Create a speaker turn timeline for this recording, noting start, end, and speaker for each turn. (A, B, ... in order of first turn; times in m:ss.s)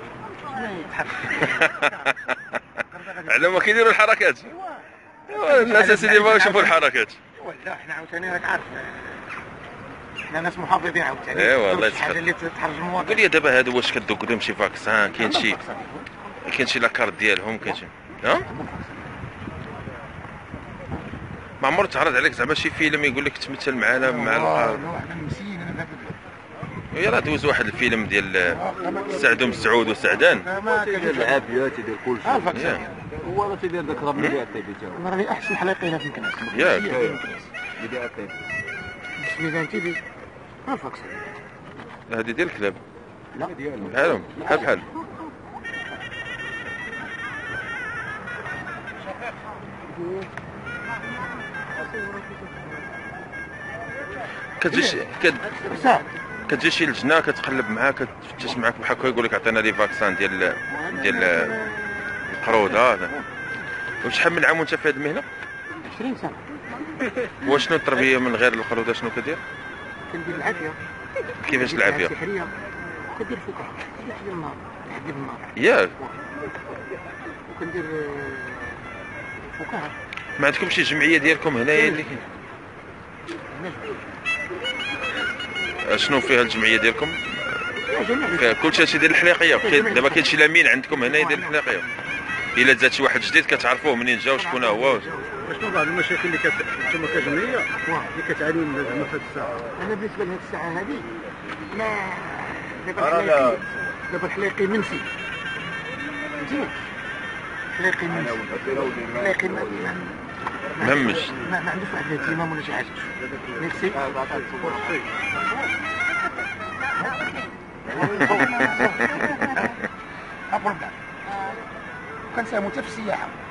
0:00.4-0:02.1 A
0:01.4-0:01.8 B
0:02.8-0:03.8 A
0:03.3-0:04.5 B
0:04.5-0:06.8 A
0:05.3-0:07.2 B
0:07.3-0:09.3 A
0:10.3-0:13.2 A
0:11.3-0:12.2 B
0:13.0-0:15.6 B
0:15.2-0:16.2 A
0:16.4-0:18.5 B
0:18.4-0:19.1 A
0:21.6-0:24.8 B
0:24.0-0:26.2 A
0:26.9-0:30.5 B
0:28.5-0:29.4 A
0:30.4-0:31.4 A
0:30.6-0:32.5 C
0:32.2-0:33.0 A
0:32.5-0:32.8 B
0:33.1-0:35.0 C
0:34.1-0:34.4 B
0:34.9-0:37.4 A
0:36.5-0:37.0 B
0:36.9-0:38.4 C
0:39.2-0:40.0 A
0:40.6-0:41.2 A
0:42.1-0:42.8 B
0:43.5-0:44.6 C
0:43.8-0:44.8 B
0:44.3-0:44.7 A
0:54.6-0:55.6 B
0:54.7-0:56.1 A
0:56.5-1:01.5 B
1:00.7-1:03.2 A
1:02.3-1:03.1 B
1:04.0-1:05.2 B
1:05.8-1:06.4 A
1:07.4-1:09.4 B
1:10.1-1:10.8 A
1:11.4-1:12.1 B
1:11.4-1:16.2 A
1:15.6-1:15.9 B
1:17.5-1:18.9 A
1:19.5-1:19.9 A
1:20.4-1:22.2 B
1:21.7-1:22.1 A
1:23.5-1:24.1 A
1:25.8-1:27.4 B
1:27.9-1:28.8 A
1:28.3-1:31.8 B
1:29.6-1:30.3 A
1:30.9-1:31.9 A
1:32.6-1:35.1 B
1:34.4-1:35.6 A
1:35.6-1:39.4 D
1:37.8-1:38.1 A
1:38.6-1:39.6 C
1:39.7-1:41.1 A
1:41.7-1:45.1 A
1:43.1-1:43.6 C
1:46.3-1:46.9 A
1:47.7-1:50.1 A
1:48.1-1:49.8 C
1:50.7-1:55.6 A
1:50.8-1:51.4 B
1:54.0-1:55.0 C
1:57.0-1:59.9 A
2:00.5-2:01.0 A
2:02.2-2:03.3 A